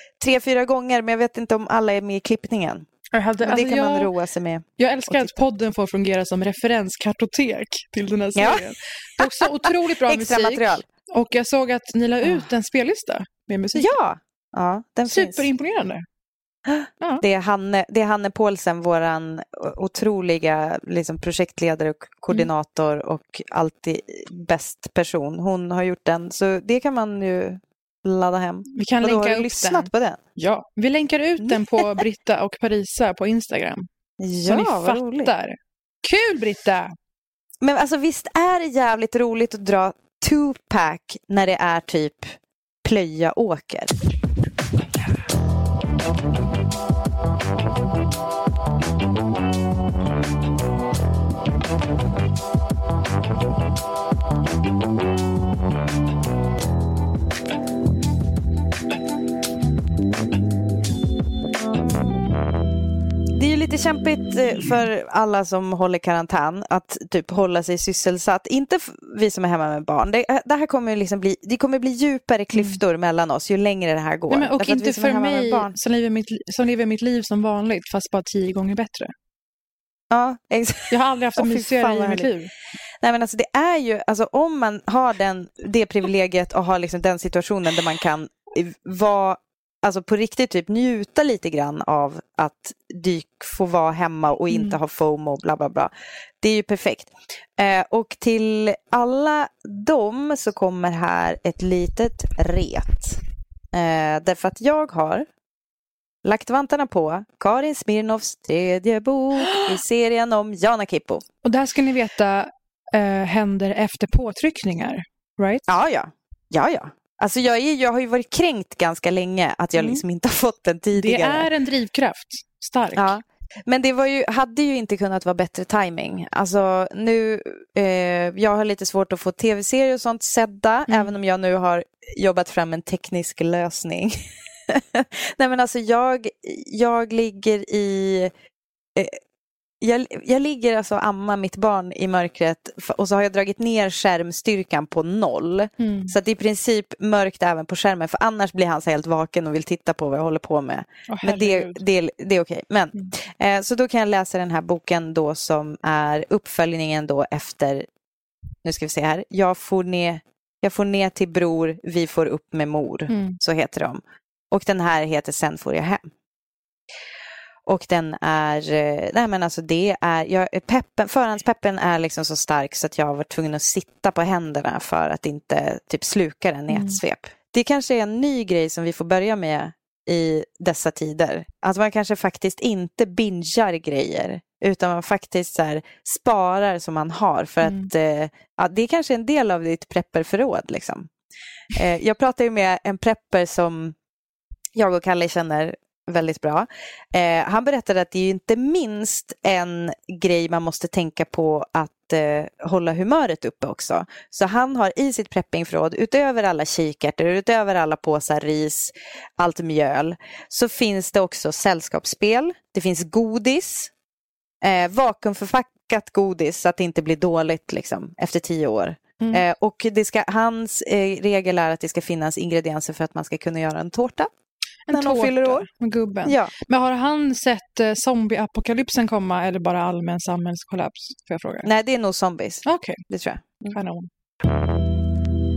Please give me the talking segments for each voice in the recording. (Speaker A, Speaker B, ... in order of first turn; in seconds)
Speaker A: 0.2-2.9, 3.4-5.4, 8.3-8.7, 9.2-10.8, 13.7-15.4, 16.7-30.2, 31.4-32.0, 34.2-35.3, 37.6-43.9, 63.3-75.7, 80.1-82.3, 83.0-103.2, 103.7-105.3, 106.2-111.2, 115.7-121.5, 122.9-134.2, 134.7-138.3, 139.8-157.9, 158.6-166.1, 167.7-191.1, 191.7-193.9, 194.7-213.9, 214.6-224.3, 224.9-225.7, 226.2-226.5, 231.6-233.8
Speaker B: 3.1-4.1, 4.8-13.9, 15.1-16.0, 28.7-33.9, 34.5-36.9, 72.5-72.8, 74.3-79.1, 80.9-82.5, 94.5-94.8, 109.4-109.8, 111.4-115.7, 120.9-123.2, 130.9-131.1, 145.8-146.1, 151.1-151.8, 163.1-163.3, 176.7-177.0, 187.6-187.9, 224.9-231.7, 232.7-233.0, 233.7-234.1